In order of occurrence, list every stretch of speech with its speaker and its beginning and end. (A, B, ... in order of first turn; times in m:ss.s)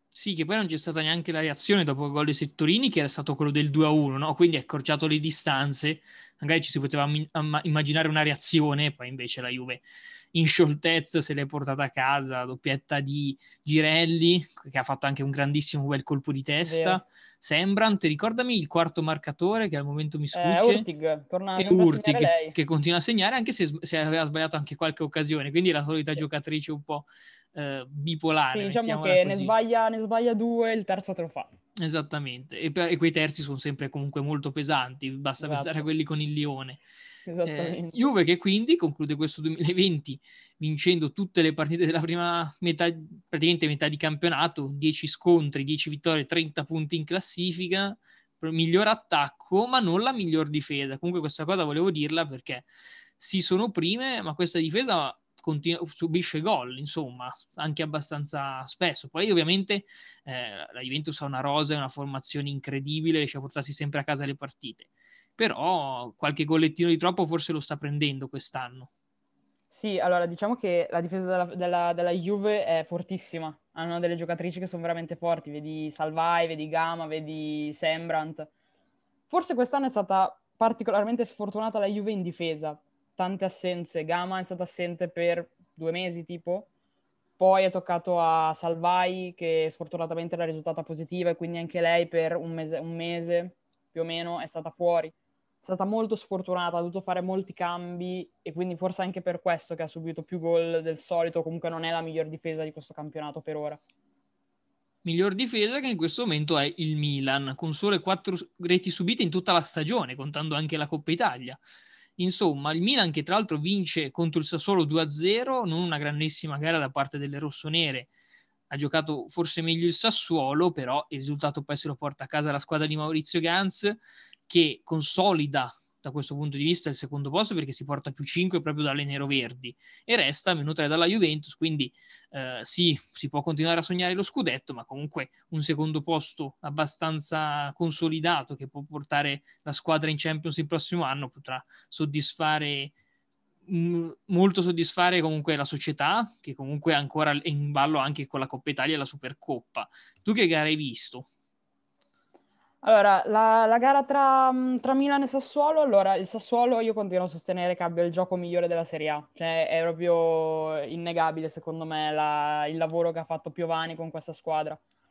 0:00.2-0:20.9 A
0:16.6-0:17.0 B
0:20.3-0:22.6 B
0:21.6-0:29.5 A
0:28.5-0:31.5 B
0:31.8-0:36.8 A
0:35.4-0:35.9 B
0:37.3-0:38.1 B
0:37.4-0:52.7 A
0:53.2-1:08.9 A
1:09.7-1:18.5 B
1:19.3-1:26.7 B
1:27.4-1:43.8 B
1:45.0-1:51.6 A
1:52.2-1:58.1 A
1:58.7-2:22.9 A
2:23.7-2:31.3 A
2:32.8-2:44.8 B